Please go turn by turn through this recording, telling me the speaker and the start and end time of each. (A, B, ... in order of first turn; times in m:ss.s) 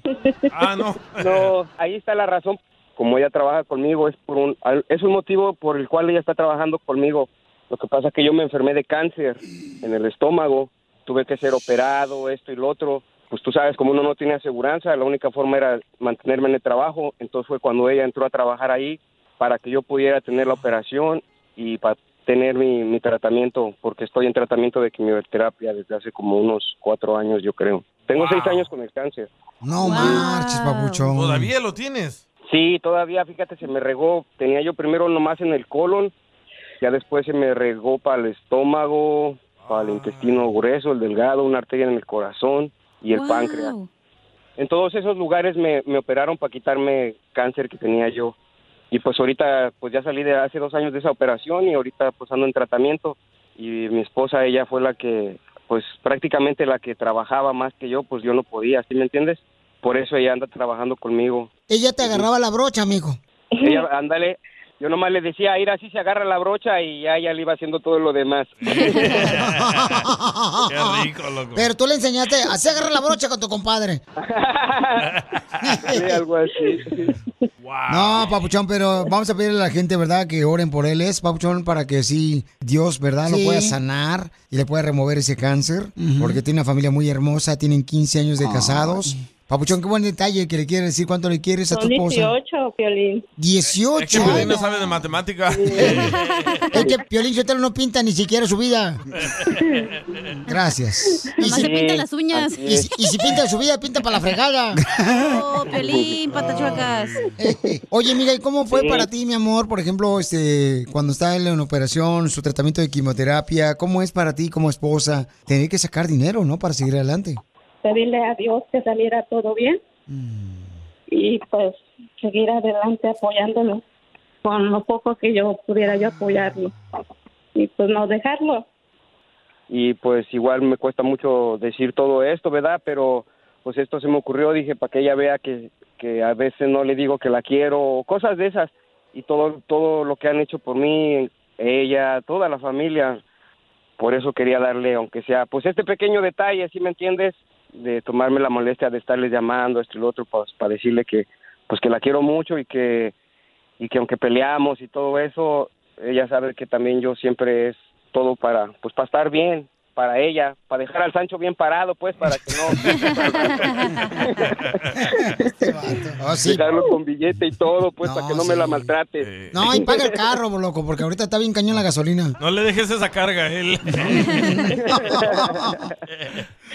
0:00.5-0:01.5 A
0:01.1-0:29.3 B
0:28.1-0:28.7 A
0:29.6-0:31.5 C
0:29.8-0:31.1 D
0:31.1-0:32.2 A
0:32.5-0:36.1 B
0:36.8-0:43.8 B
0:39.6-0:40.5 A
0:43.1-0:43.9 D
0:44.6-0:48.4 B
0:48.9-1:01.5 B
1:01.7-1:03.2 C
1:03.6-1:09.1 B
1:08.7-1:10.1 A
1:09.3-1:14.0 C
1:10.7-1:11.7 A
1:14.2-1:15.1 B
1:15.1-1:15.8 A
1:15.9-1:17.1 B
1:17.6-1:18.4 A
1:17.9-1:32.3 C
1:31.7-1:33.2 E
1:33.4-1:34.8 C
1:33.9-1:36.2 A
1:35.8-1:36.1 C
1:35.9-1:36.7 D
1:36.7-1:39.0 C
1:39.3-1:39.6 A
1:40.5-1:41.7 C
1:41.4-1:42.6 D
1:41.5-1:42.9 B
1:42.6-1:44.8 C
1:45.1-1:47.2 D
1:45.7-1:46.8 B
1:47.4-1:57.4 C
1:48.7-1:49.1 B
1:57.8-1:59.8 E
2:00.1-2:00.6 C
2:01.1-2:03.8 E
2:04.4-2:06.7 E
2:07.6-2:08.6 E
2:09.7-2:23.2 B
2:24.0-2:33.1 B
2:33.8-2:44.4 B
2:43.0-2:44.1 D
2:45.4-2:50.2 B
2:45.6-2:46.6 C
2:48.0-2:48.8 C
2:49.2-2:49.8 A
2:49.5-2:52.4 C
2:52.4-2:54.3 A
2:54.1-2:55.7 C
2:54.7-2:55.9 B
2:56.1-2:56.4 A